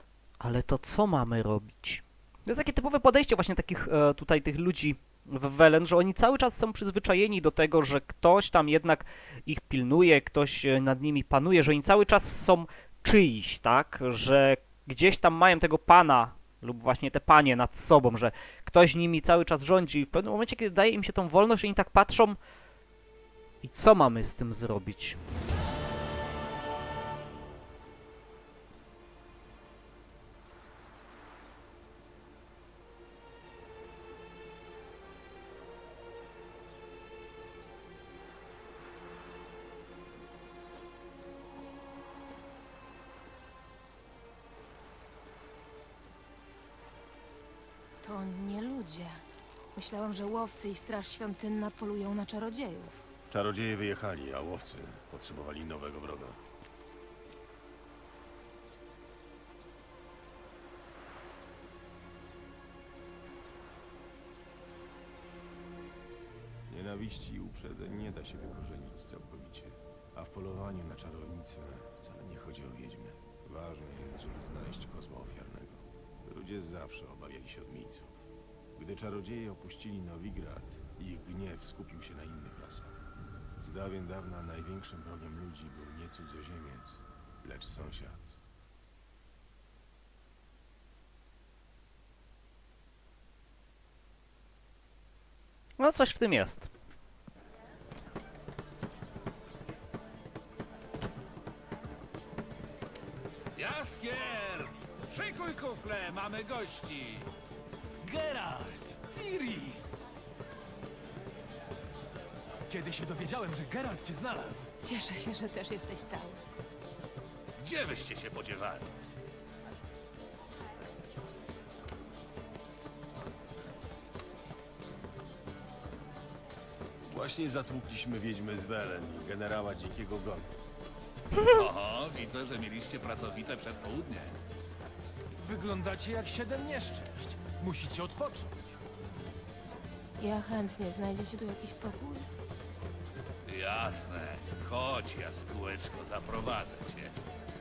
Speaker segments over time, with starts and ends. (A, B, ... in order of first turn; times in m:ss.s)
0:00.4-0:22.4 A
0:23.6-0:25.2 A
0:48.0-0:53.0 B
0:53.3-0:56.4 C
1:06.7-1:18.2 C
1:18.8-1:22.9 C
1:23.6-1:28.4 C
1:35.8-1:36.7 A
1:43.6-1:47.3 D
1:48.0-1:49.8 E
1:52.7-1:54.7 E
1:54.8-1:56.4 B
1:57.6-1:58.9 D
2:07.1-2:10.5 C
2:11.5-2:14.3 D
2:15.4-2:18.8 E
2:20.2-2:22.3 B
2:23.4-2:27.1 D